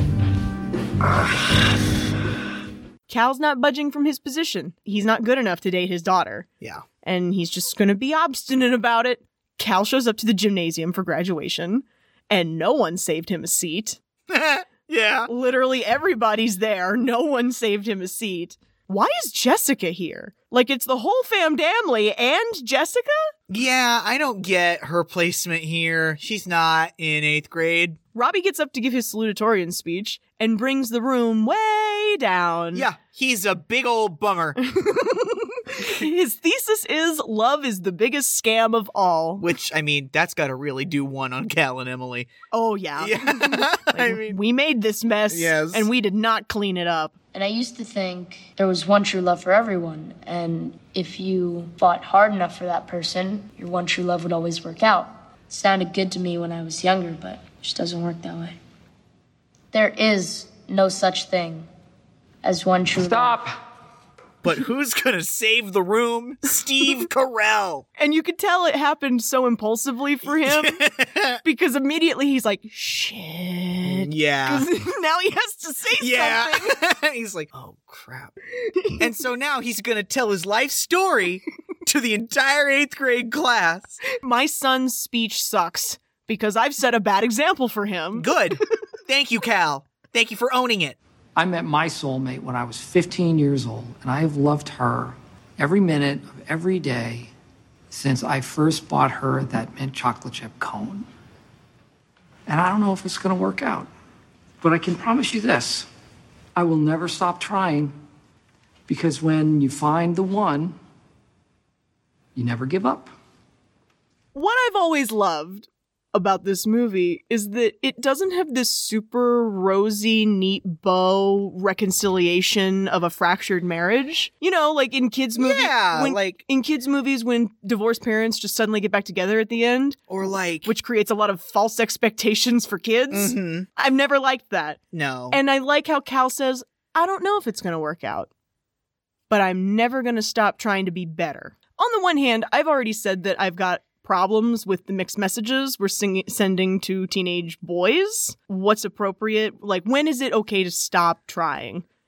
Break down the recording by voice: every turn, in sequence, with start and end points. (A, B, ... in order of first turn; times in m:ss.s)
0:03.1-0:06.5 A
0:07.0-0:14.0 A
0:14.3-0:15.3 B
0:15.3-0:23.3 A
0:23.5-0:28.0 B
0:28.1-0:32.9 A
0:32.7-0:34.6 B
0:34.6-0:39.4 A
0:39.4-0:42.3 B
0:42.5-0:47.2 A
0:43.0-0:44.4 B
0:45.3-0:45.9 B
0:47.3-0:58.6 C
0:59.7-1:01.7 C
1:02.4-1:03.4 C
1:03.0-1:03.6 D
1:04.4-1:07.8 B
1:08.0-1:10.8 A
1:10.4-1:11.4 B
1:11.4-1:16.8 A
1:13.8-1:14.7 B
1:16.0-1:18.3 B
1:18.8-1:19.1 A
1:19.0-1:24.0 B
1:24.1-1:28.4 A
1:28.2-1:31.0 B
1:31.4-1:37.3 D
1:37.9-1:41.1 D
1:42.5-1:43.9 D
1:44.6-1:45.9 D
1:46.6-1:48.0 D
1:48.9-1:50.8 D
1:52.4-1:53.1 D
1:54.3-2:10.1 A
2:05.4-2:06.4 B
2:10.1-2:10.7 B
2:10.6-2:14.8 A
2:13.1-2:13.7 B
2:14.9-2:15.4 B
2:15.3-2:18.3 A
2:19.3-2:31.9 A